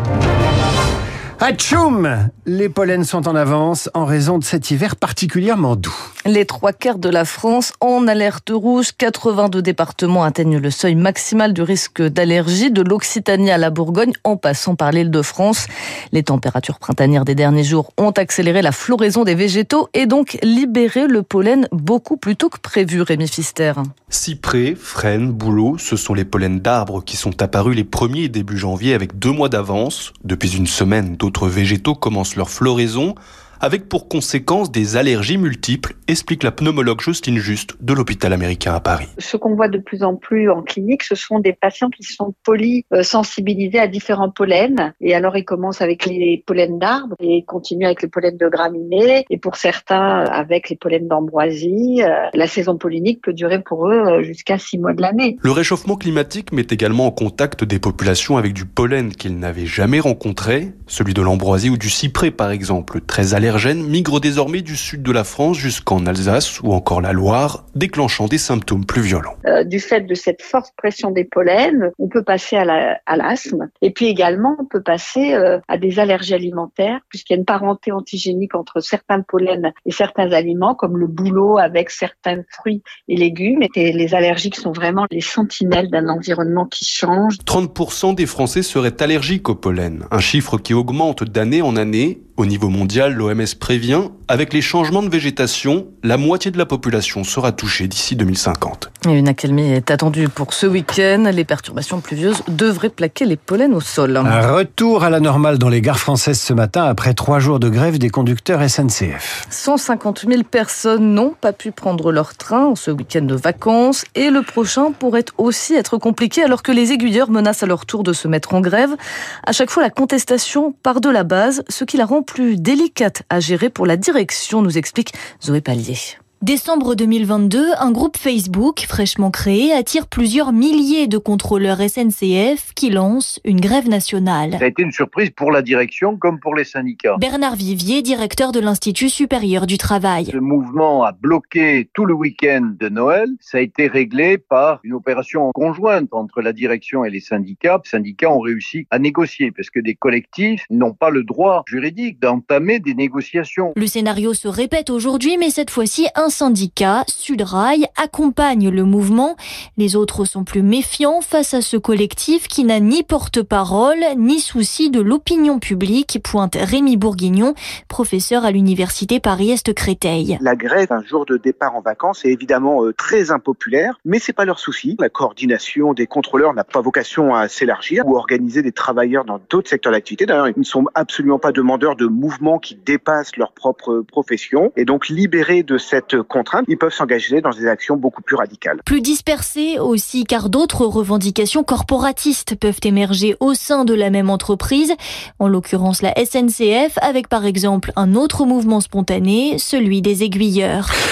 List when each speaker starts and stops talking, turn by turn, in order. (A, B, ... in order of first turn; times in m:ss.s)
0:01.4-0:06.0 A
0:06.3-0:23.9 B
0:24.1-0:39.1 C
0:39.2-0:55.4 D
0:55.4-1:09.4 C
1:09.4-1:27.4 D
1:27.5-1:38.9 C
1:39.0-1:44.4 B
1:44.2-1:49.4 A
1:49.5-2:06.2 B
2:06.4-2:14.6 E
2:14.6-2:17.2 F
2:17.2-2:20.4 E
2:20.3-2:33.7 F
2:33.8-2:50.4 E
2:50.5-3:08.8 G
3:08.8-3:20.9 E